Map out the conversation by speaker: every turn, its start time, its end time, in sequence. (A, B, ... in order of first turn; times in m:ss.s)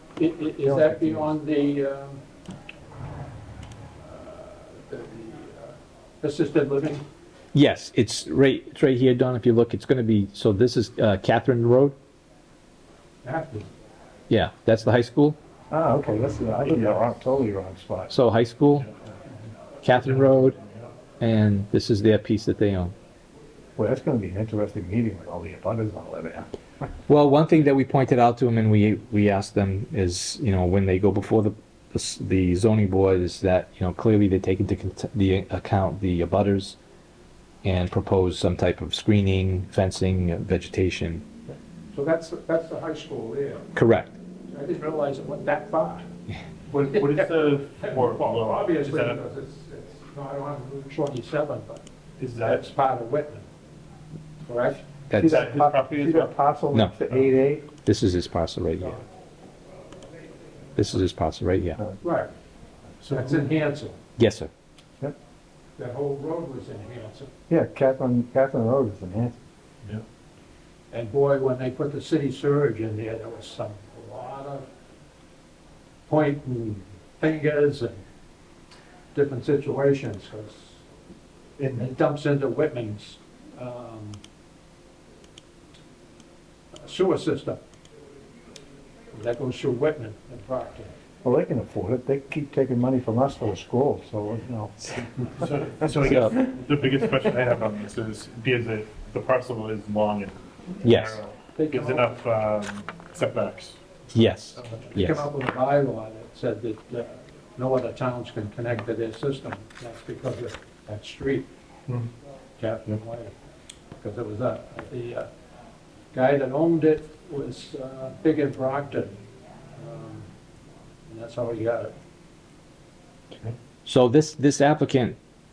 0:00.2-0:02.2 A
0:00.6-0:01.3 B
0:04.1-0:07.0 A
0:07.5-0:11.9 C
0:13.2-0:13.7 A
0:14.3-0:15.4 C
0:15.7-0:18.1 B
0:16.7-0:17.0 D
0:18.1-0:18.9 C
0:19.8-0:20.6 C
0:19.9-0:20.9 D
0:21.2-0:22.9 C
0:23.8-0:26.5 B
0:27.1-0:36.8 C
0:37.6-0:41.2 C
0:41.9-0:43.7 A
0:43.7-0:44.2 C
0:44.5-0:46.0 A
0:46.7-0:49.2 D
0:46.8-0:51.8 A
0:52.2-0:52.6 D
0:52.4-0:53.4 A
0:54.4-0:54.8 A
0:55.1-0:55.4 C
0:55.2-0:57.6 B
0:55.2-0:56.4 D
0:57.8-0:59.0 C
1:00.8-1:01.8 C
1:02.0-1:02.3 A
1:03.0-1:03.5 D
1:03.1-1:04.0 A
1:04.2-1:04.5 C
1:05.8-1:07.3 A
1:07.5-1:09.4 B
1:10.9-1:14.6 A
1:16.1-1:18.0 A
1:19.1-1:20.8 A
1:21.6-1:21.9 D
1:21.7-1:24.2 A
1:26.7-1:27.6 A
1:29.1-1:30.9 A
1:31.2-1:35.1 B
1:35.3-1:43.8 D
1:40.8-1:41.2 C
1:41.6-1:42.2 A
1:44.1-1:45.3 C
1:44.6-1:44.8 D
1:44.8-1:51.5 A
1:52.6-1:53.3 A
1:54.0-1:55.3 A
1:56.1-1:59.1 A
1:59.7-2:00.3 A
2:01.1-2:01.9 A
2:03.8-2:05.2 C